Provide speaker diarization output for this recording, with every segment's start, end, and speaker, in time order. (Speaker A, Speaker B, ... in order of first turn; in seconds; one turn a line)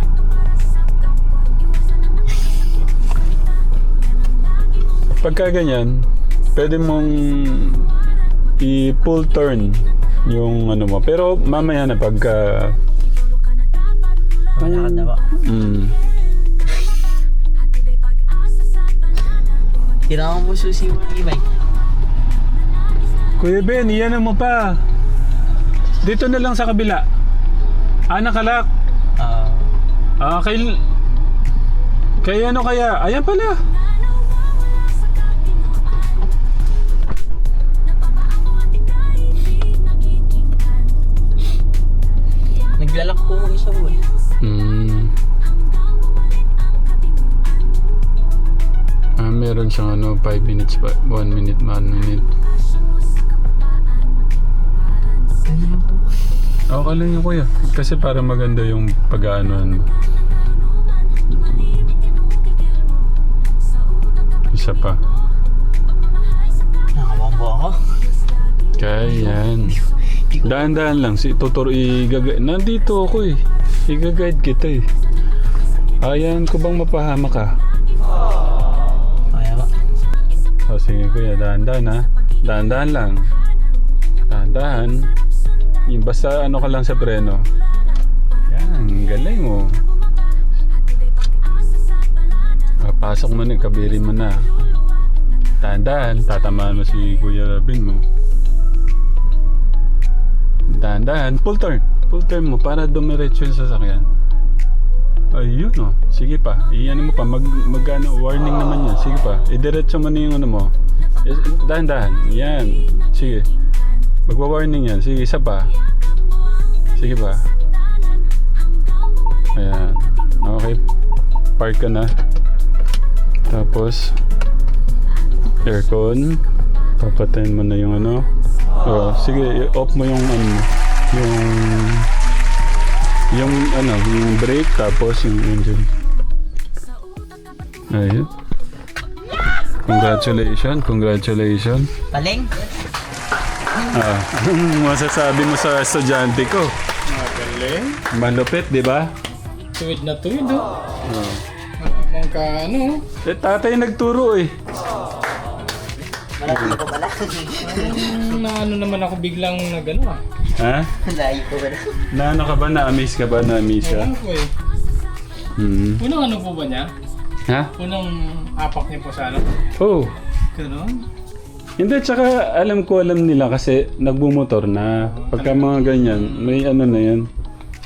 Speaker A: 5.1-7.9
Speaker A: 8.6-12.8
Speaker B: 14.6-15.2
Speaker A: 14.6-15.9
Speaker B: 20.1-21.4
Speaker A: 23.4-24.8
Speaker A: 26.0-27.0
Speaker A: 28.1-28.7
Speaker B: 29.2-29.7
Speaker A: 30.2-30.8
Speaker A: 32.2-33.5
Speaker B: 42.8-44.0
Speaker A: 44.4-45.1
Speaker A: 49.2-52.2
Speaker B: 55.4-56.0
Speaker A: 56.7-59.9
Speaker A: 64.5-65.0
Speaker B: 66.9-67.8
Speaker A: 68.8-69.8
Speaker B: 69.0-70.8
Speaker A: 70.4-74.8
Speaker A: 76.0-77.5
Speaker B: 79.3-79.7
Speaker A: 80.7-83.2
Speaker A: 84.3-85.1
Speaker A: 85.9-87.4
Speaker A: 88.5-89.8
Speaker A: 92.8-94.6
Speaker A: 95.6-98.0
Speaker A: 100.7-104.1
Speaker A: 105.3-113.5
Speaker A: 114.3-115.7
Speaker A: 117.0-117.4
Speaker A: 119.5-120.8
Speaker A: 121.6-122.1
Speaker A: 123.5-124.2
Speaker A: 125.6-126.4
Speaker A: 127.0-128.3
Speaker A: 128.8-132.1
Speaker A: 133.3-135.9
Speaker A: 137.9-138.3
Speaker A: 139.8-141.9
Speaker B: 142.1-142.6
Speaker A: 143.9-146.7
Speaker C: 147.1-148.0
Speaker A: 148.1-149.1
Speaker C: 149.7-150.7
Speaker A: 151.0-151.4
Speaker C: 151.8-153.0
Speaker A: 153.2-154.5
Speaker C: 155.7-156.1
Speaker B: 156.3-158.2
Speaker A: 156.5-156.8
Speaker C: 157.6-160.2
Speaker A: 160.6-160.9
Speaker B: 161.0-162.1
Speaker A: 162.1-164.1
Speaker C: 163.8-164.5
Speaker A: 165.6-166.0
Speaker C: 166.0-166.9
Speaker C: 167.8-169.6
Speaker A: 169.8-170.1
Speaker C: 170.5-171.0
Speaker A: 171.8-177.3
Speaker C: 175.1-176.6